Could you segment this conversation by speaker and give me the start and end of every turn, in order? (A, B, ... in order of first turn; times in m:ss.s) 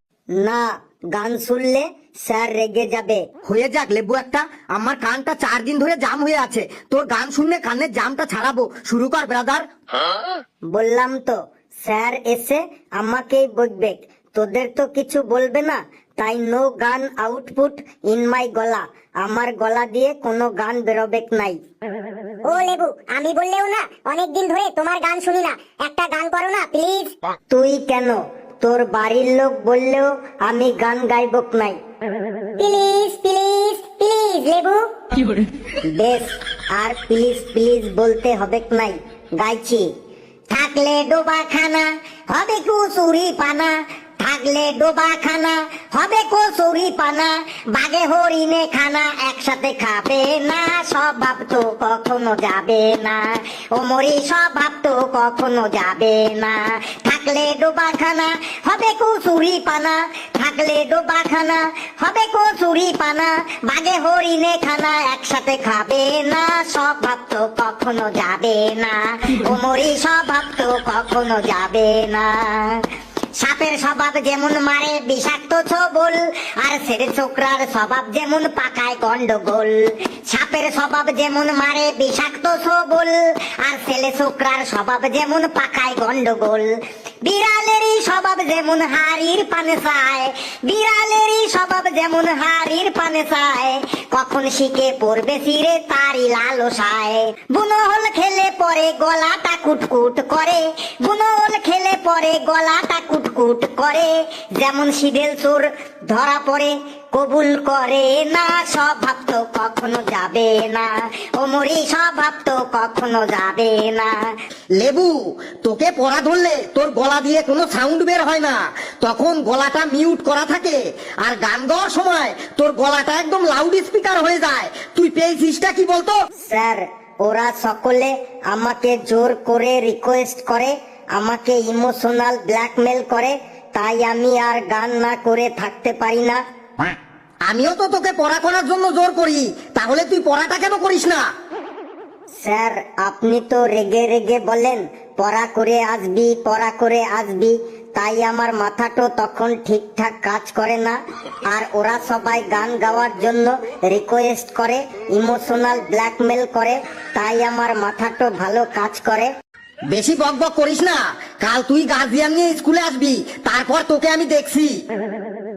0:00.4-0:03.2 A
0:03.5-0:09.6 B
0:10.7-0:21.6 A
0:22.5-0:27.1 C
0:27.5-0:31.8 A
0:32.6-0:34.8 C
0:35.8-0:39.9 A
0:40.5-1:12.8 A
1:13.4-1:26.7 A
1:27.2-1:54.2 A
1:54.8-2:06.2 B
2:06.5-2:16.4 A
2:17.5-2:21.2 B
2:22.4-2:39.3 A
2:39.9-2:44.8 B